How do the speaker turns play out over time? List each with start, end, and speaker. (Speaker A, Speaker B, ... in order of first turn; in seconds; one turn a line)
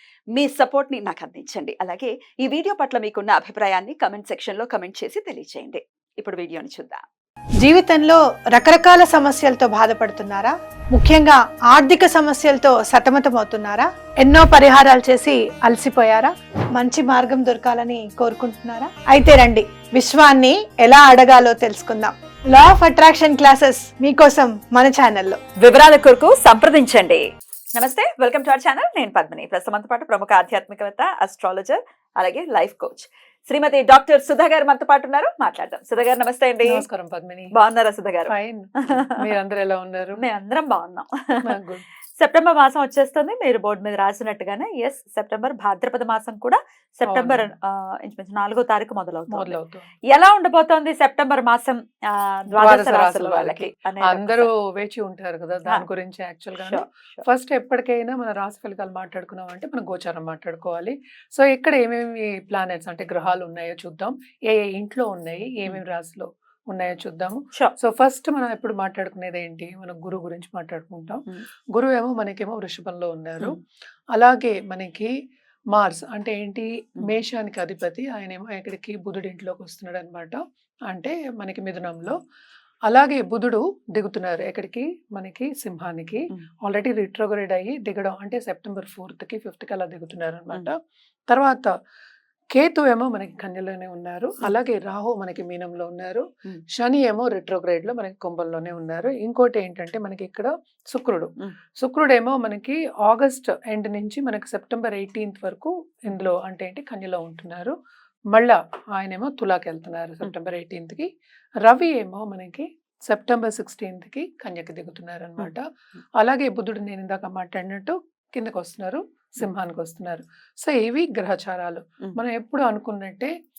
Speaker A: 0.3-7.0
Speaker B: 7.6-25.4
Speaker A: 25.6-36.8
Speaker C: 36.6-37.5
Speaker A: 37.5-38.3
Speaker C: 38.2-40.2
Speaker A: 38.8-39.2
Speaker A: 40.2-41.4
Speaker C: 41.4-41.8
Speaker A: 42.2-49.5
Speaker C: 47.1-47.5
Speaker C: 49.3-49.9
Speaker A: 50.1-54.5
Speaker C: 52.5-73.6
Speaker A: 56.6-57.2
Speaker C: 74.1-75.1
Speaker C: 75.7-82.2
Speaker C: 82.9-90.8
Speaker C: 91.3-91.7
Speaker C: 92.5-107.7
Speaker C: 108.3-111.1
Speaker C: 111.7-115.6
Speaker C: 116.2-123.3